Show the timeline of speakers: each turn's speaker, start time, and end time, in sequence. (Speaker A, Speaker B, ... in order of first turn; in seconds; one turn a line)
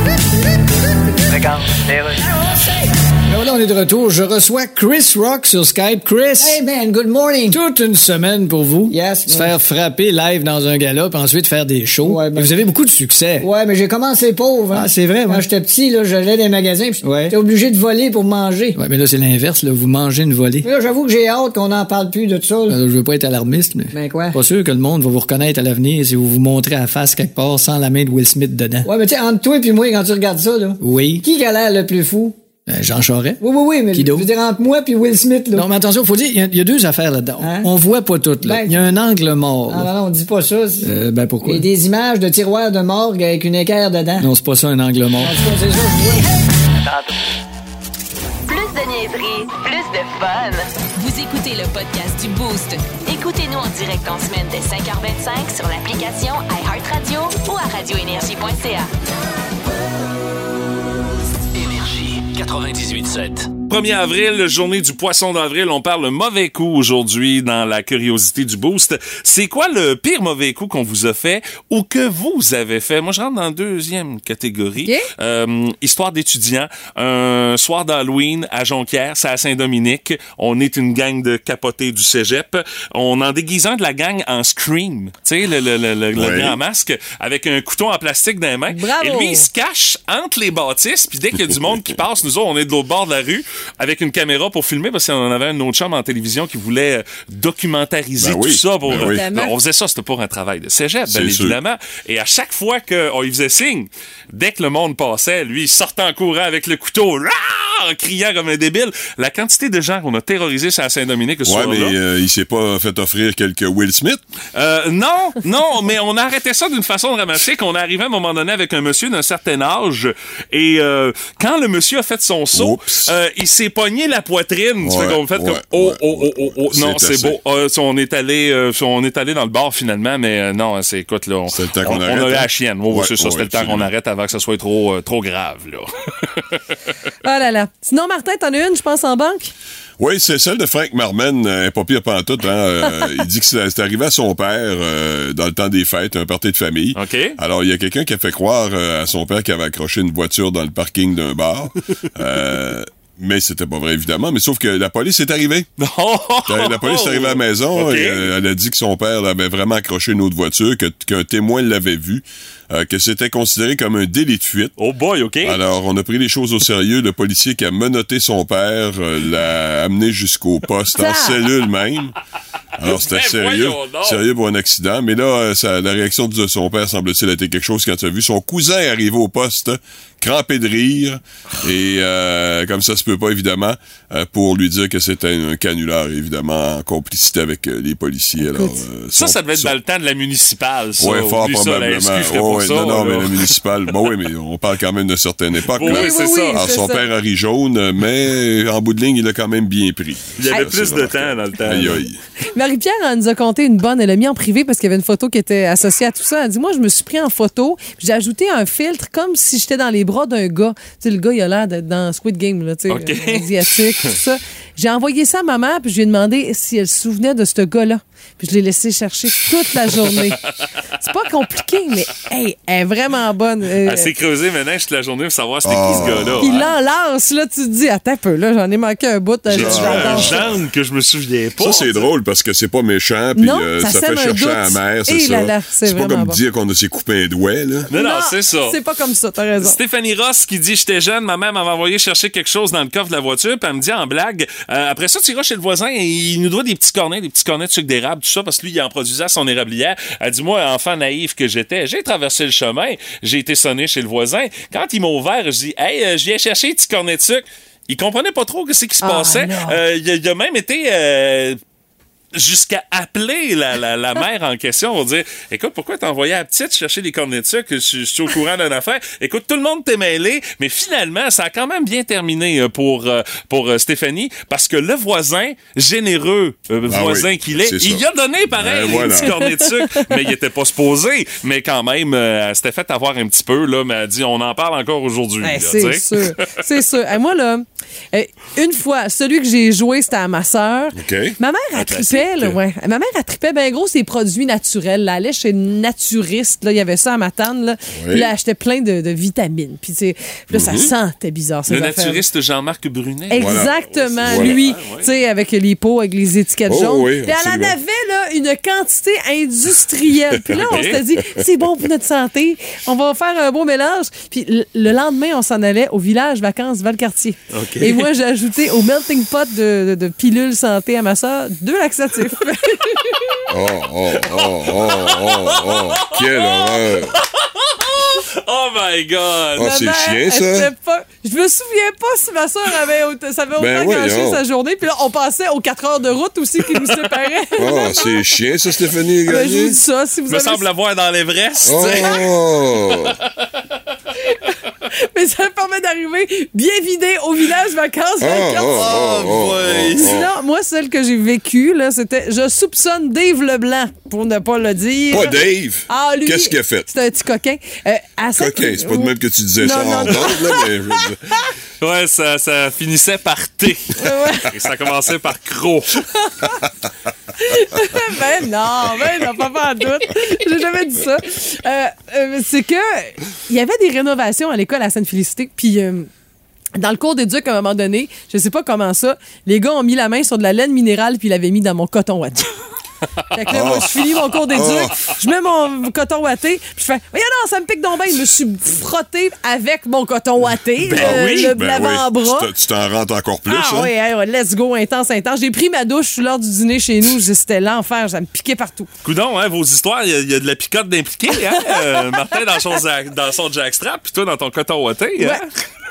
Speaker A: 3.3-6.6
Speaker B: 6.4-7.6
Speaker A: 7.5-13.5
Speaker B: 8.9-9.6
Speaker B: 12.0-12.7
Speaker B: 13.4-18.8
Speaker A: 14.7-15.4
Speaker A: 17.0-17.4
Speaker A: 18.8-20.7
Speaker B: 20.6-22.8
Speaker A: 22.7-28.9
Speaker B: 23.9-24.4
Speaker B: 28.8-32.4
Speaker A: 30.8-31.2
Speaker A: 32.7-33.4
Speaker B: 33.4-35.7
Speaker A: 34.0-34.2
Speaker A: 35.5-39.9
Speaker B: 37.4-37.9
Speaker B: 38.4-39.0
Speaker B: 39.7-44.3
Speaker A: 40.8-41.7
Speaker A: 44.2-45.4
Speaker B: 45.2-46.2
Speaker C: 48.5-58.9
Speaker D: 61.5-63.5
Speaker E: 63.7-112.0
Speaker F: 86.2-86.6
Speaker G: 88.7-89.5
Speaker F: 98.2-99.2
Speaker G: 98.9-99.5
Speaker F: 101.1-101.6
Speaker F: 111.4-114.2
Speaker E: 114.5-136.4
Speaker F: 122.5-123.1
Speaker F: 124.8-127.4
Speaker F: 131.5-133.9
Speaker G: 137.2-139.5
Speaker F: 140.0-155.7
Speaker E: 146.9-147.4
Speaker E: 155.8-158.3
Speaker F: 156.5-164.8
Speaker E: 164.8-165.6
Speaker F: 165.4-172.2
Speaker G: 170.9-171.4
Speaker F: 172.8-189.7
Speaker E: 172.8-174.2
Speaker G: 188.5-188.8
Speaker E: 189.2-193.5
Speaker F: 191.0-202.2
Speaker E: 195.7-196.6
Speaker G: 195.8-197.1
Speaker E: 200.4-202.0
Speaker G: 202.5-224.1
Speaker E: 212.9-214.2
Speaker E: 219.9-220.2
Speaker E: 223.8-226.7
Speaker F: 225.7-226.5
Speaker G: 226.4-230.5
Speaker E: 229.5-232.1
Speaker F: 229.5-230.6
Speaker F: 231.6-237.9
Speaker G: 233.4-236.4
Speaker E: 237.9-238.8
Speaker G: 237.9-239.8
Speaker E: 239.6-261.6
Speaker G: 259.0-259.8
Speaker E: 262.3-286.4
Speaker F: 276.9-279.4
Speaker G: 278.9-279.9
Speaker G: 285.4-302.2
Speaker F: 291.0-291.4
Speaker E: 291.8-292.5
Speaker F: 297.9-298.3
Speaker F: 300.5-300.9
Speaker E: 301.7-305.1
Speaker G: 303.3-323.4
Speaker F: 303.4-303.7
Speaker F: 304.2-304.6
Speaker F: 306.7-307.8
Speaker E: 310.5-311.0
Speaker E: 317.5-318.1
Speaker F: 323.5-327.1
Speaker E: 324.2-329.7
Speaker F: 329.6-330.7
Speaker G: 329.6-338.2
Speaker F: 333.6-334.4
Speaker F: 337.6-339.8
Speaker G: 339.2-340.7
Speaker E: 340.3-342.3
Speaker F: 341.7-343.1
Speaker G: 345.1-349.0
Speaker F: 348.2-350.3
Speaker E: 348.7-350.1
Speaker G: 350.0-361.4
Speaker F: 355.1-356.9
Speaker F: 358.4-361.2
Speaker E: 361.8-366.0
Speaker G: 364.0-364.5
Speaker G: 366.1-366.7
Speaker G: 367.4-376.1
Speaker G: 376.8-382.5
Speaker G: 383.3-392.5
Speaker F: 383.5-385.1
Speaker E: 383.5-383.9
Speaker E: 390.8-391.5
Speaker F: 391.0-393.9
Speaker G: 393.5-398.9
Speaker E: 399.0-405.4
Speaker G: 401.5-402.0